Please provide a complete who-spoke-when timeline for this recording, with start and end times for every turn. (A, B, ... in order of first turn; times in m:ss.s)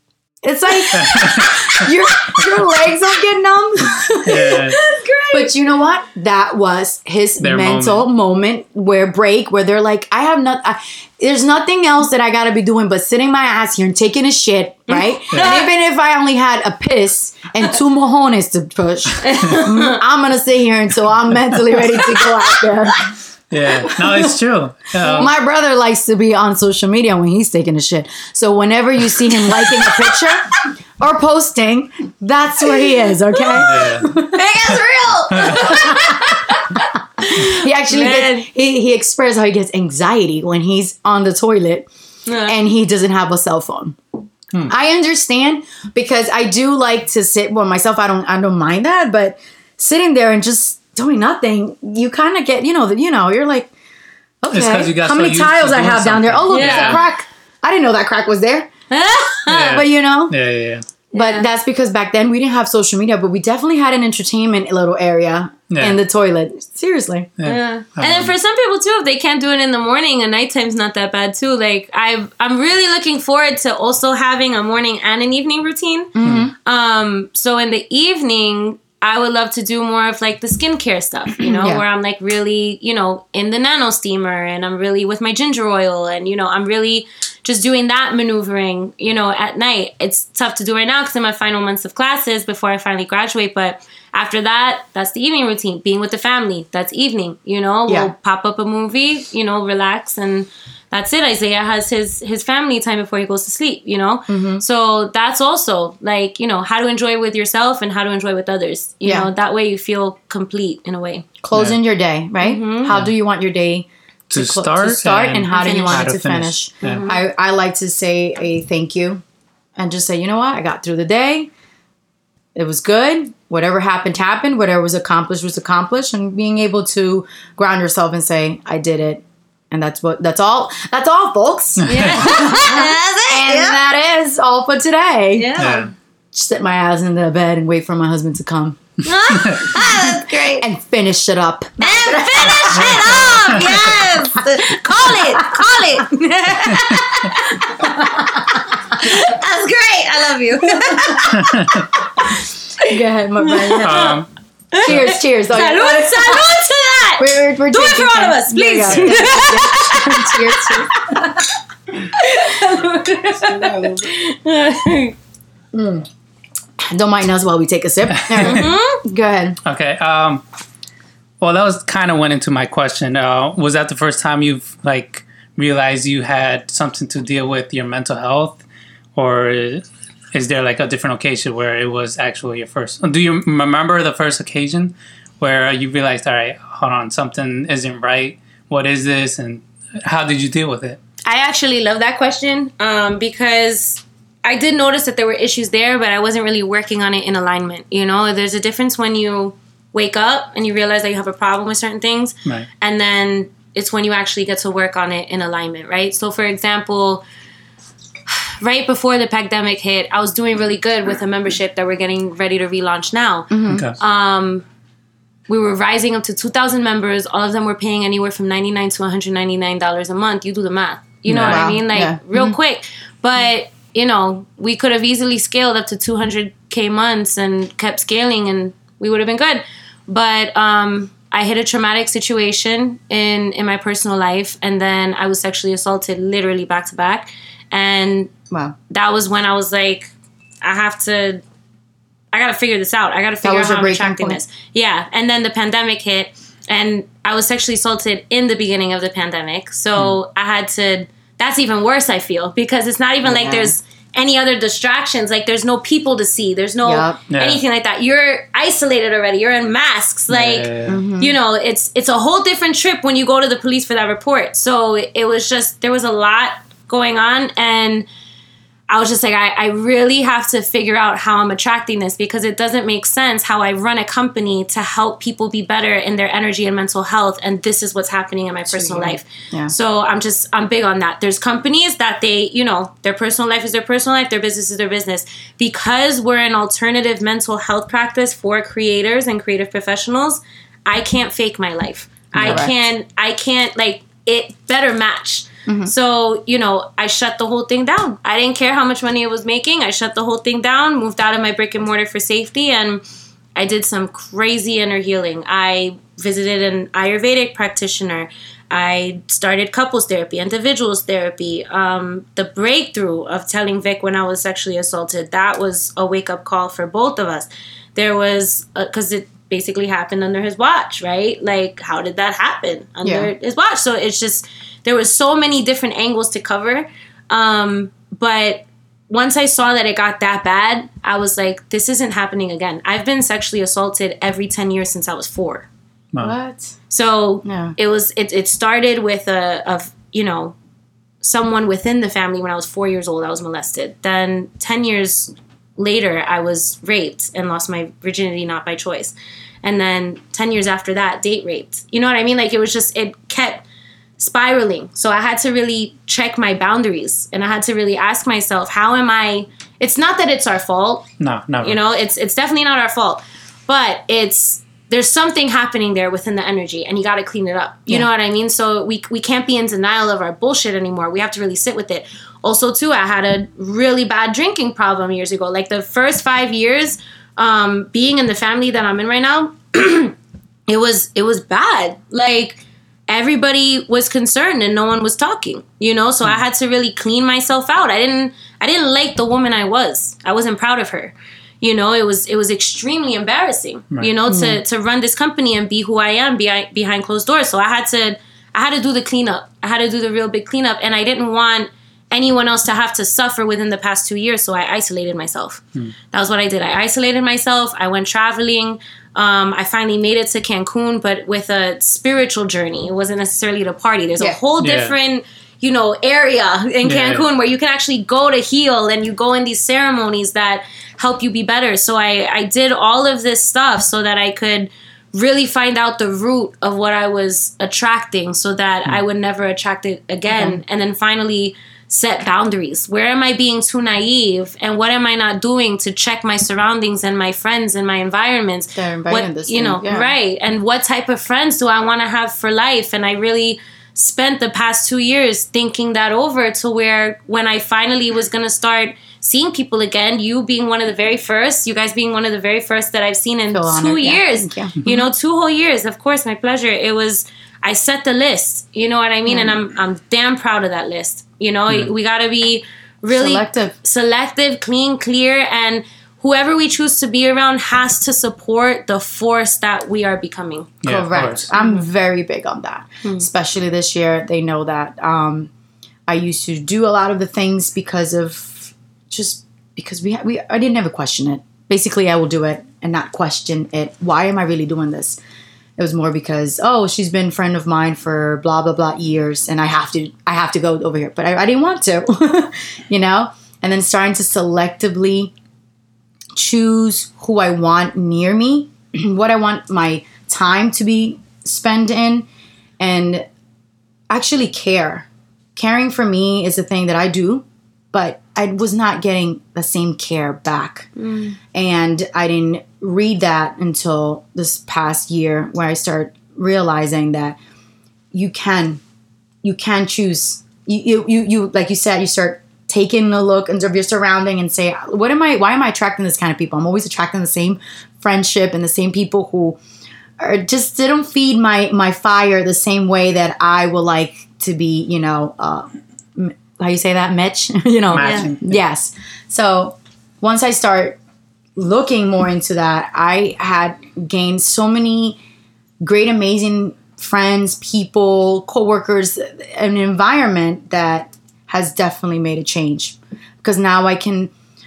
0:00.4-0:04.6 A
0:01.0-0:01.5 B
0:04.2-0:04.8 B
0:04.3-0:05.5 C
0:05.3-0:23.1 A
0:07.4-0:08.0 B
0:14.9-0:15.7 C
0:19.2-0:20.0 C
0:21.9-0:22.6 C
0:23.5-0:25.3 B
0:23.9-0:24.3 A
0:25.0-0:25.3 C
0:25.1-0:34.4 A
0:33.3-0:38.5 C
0:33.6-0:34.2 B
0:35.3-0:35.6 B
0:35.4-0:36.4 A
0:37.2-0:41.9 A
0:42.2-0:42.6 C
0:42.4-0:44.0 A
0:44.7-0:53.7 A
0:54.4-0:58.7 A
0:54.5-0:57.0 B
0:56.5-0:57.0 C
0:58.9-0:59.8 C
0:59.5-1:00.8 B
0:59.7-1:00.3 A
1:01.1-1:01.5 C
1:01.1-1:07.3 A
1:05.7-1:06.0 B
1:07.4-1:08.3 B
1:07.4-1:16.1 C
1:16.1-1:16.5 A
1:16.2-1:16.5 B
1:16.6-1:51.2 C
1:21.4-1:21.8 A
1:37.9-1:38.1 A
1:44.3-1:44.6 A
1:49.0-1:49.3 A
1:51.4-1:59.2 A
1:51.5-1:51.8 B
1:52.4-1:52.9 C
1:52.9-1:53.1 B
1:54.3-1:57.0 B
1:55.5-1:56.1 C
1:56.8-1:57.2 C
1:59.8-2:01.5 A
2:02.5-2:15.6 A
2:11.8-2:12.3 B
2:11.8-2:13.8 C
2:15.4-2:15.9 C
2:15.6-2:15.9 B
2:16.3-2:18.8 A
2:19.0-2:20.6 C
2:19.3-2:19.6 B
2:19.7-2:23.2 A
2:21.8-2:31.8 C
2:22.7-2:23.9 B
2:27.8-2:28.4 A
2:31.3-2:31.8 B
2:32.8-2:34.1 C
2:32.9-2:34.1 A
2:33.8-2:34.3 B
2:34.7-2:41.4 C
2:34.8-2:36.5 A
2:37.2-2:41.5 A
2:38.8-2:39.2 B
2:42.1-2:45.1 C
2:43.5-2:43.8 A
2:45.7-2:46.1 A
2:46.8-2:49.6 A
2:48.1-2:48.7 B
2:48.4-2:49.0 C
2:49.6-2:50.4 B
2:51.4-2:58.6 B
2:59.1-3:11.0 B
3:11.2-3:27.2 C
3:28.3-3:34.6 C
3:33.5-3:33.8 A
3:33.7-3:34.0 B
3:35.5-3:58.3 C
3:41.3-3:41.7 B
3:41.4-3:42.6 A
3:58.5-3:58.8 A
3:58.9-4:01.4 C
4:02.3-4:28.1 C
4:03.4-4:04.4 A
4:13.2-4:13.8 A
4:16.8-4:17.2 A
4:17.3-4:17.6 B
4:20.3-4:21.0 B
4:20.8-4:21.4 A
4:28.9-5:03.0 C
4:38.7-4:39.7 A
4:52.3-4:52.7 B
4:52.4-4:52.7 A
4:55.6-4:55.9 A
5:03.6-5:35.7 C
5:23.0-5:23.3 A
5:36.2-5:36.8 A
5:36.9-5:40.5 C
5:37.4-5:37.8 A
5:41.2-5:53.6 C
5:54.2-6:01.0 C
6:01.2-6:01.8 B
6:01.6-6:20.1 C
6:20.7-7:50.7 C
6:34.3-6:34.6 A
6:54.6-6:54.9 B
6:56.8-6:57.2 B
7:10.3-7:10.6 A
7:18.7-7:20.1 A
7:33.5-7:34.9 A
7:39.3-7:39.6 A
7:43.1-7:43.7 A
7:50.8-7:51.5 B
7:50.8-7:55.5 A
7:51.5-7:51.9 C
7:56.1-8:05.2 A
8:05.8-8:15.3 A
8:16.3-8:22.2 A
8:22.8-8:23.2 A
8:24.1-8:30.9 A
8:31.0-8:31.4 C
8:31.5-8:37.4 A
8:38.1-8:38.8 A
8:39.4-8:49.6 A
8:50.2-9:01.0 A
8:57.9-8:58.6 B
8:58.0-8:58.3 C
9:01.6-9:05.2 A
9:05.8-9:14.3 A